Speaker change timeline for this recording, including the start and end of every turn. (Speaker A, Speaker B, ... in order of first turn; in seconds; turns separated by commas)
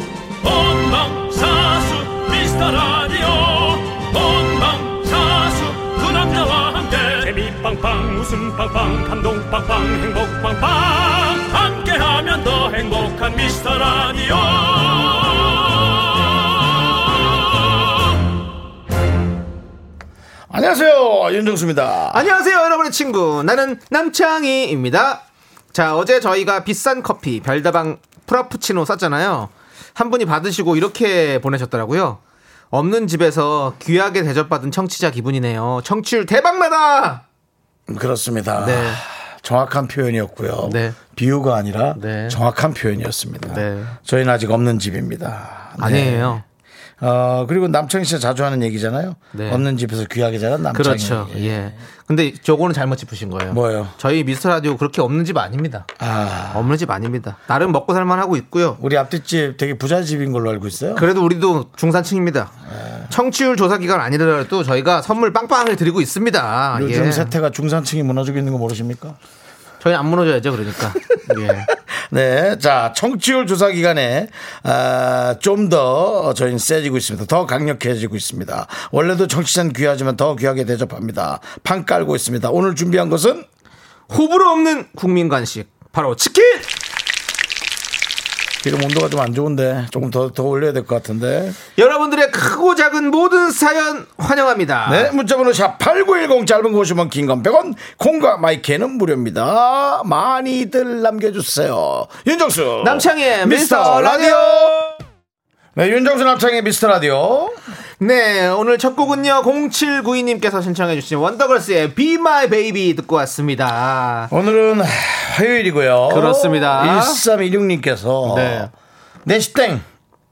Speaker A: 0.4-18.0, Speaker B: 20.5-22.2, Speaker C: 22.1-32.2, Speaker C: 32.7-37.2, Speaker B: 37.9-46.4, Speaker C: 38.6-39.0, Speaker C: 40.6-41.0, Speaker C: 42.0-42.4, Speaker C: 43.5-44.0, Speaker C: 45.8-46.4, Speaker B: 47.0-51.7, Speaker C: 49.3-49.7, Speaker C: 50.7-55.9, Speaker B: 53.5-54.0, Speaker B: 56.0-56.7, Speaker C: 56.5-58.8, Speaker B: 58.8-61.1, Speaker C: 61.0-62.5, Speaker B: 62.7-63.1, Speaker C: 63.1-67.3, Speaker B: 66.7-69.2, Speaker C: 69.8-71.7, Speaker B: 71.2-83.5, Speaker C: 84.1-86.7, Speaker B: 88.6-91.6, Speaker C: 91.8-95.1, Speaker B: 94.8-105.0, Speaker C: 102.8-104.8, Speaker B: 105.8-107.6, Speaker C: 108.0-114.3, Speaker B: 114.3-118.7, Speaker C: 116.1-117.2, Speaker C: 118.2-118.7, Speaker B: 119.2-119.9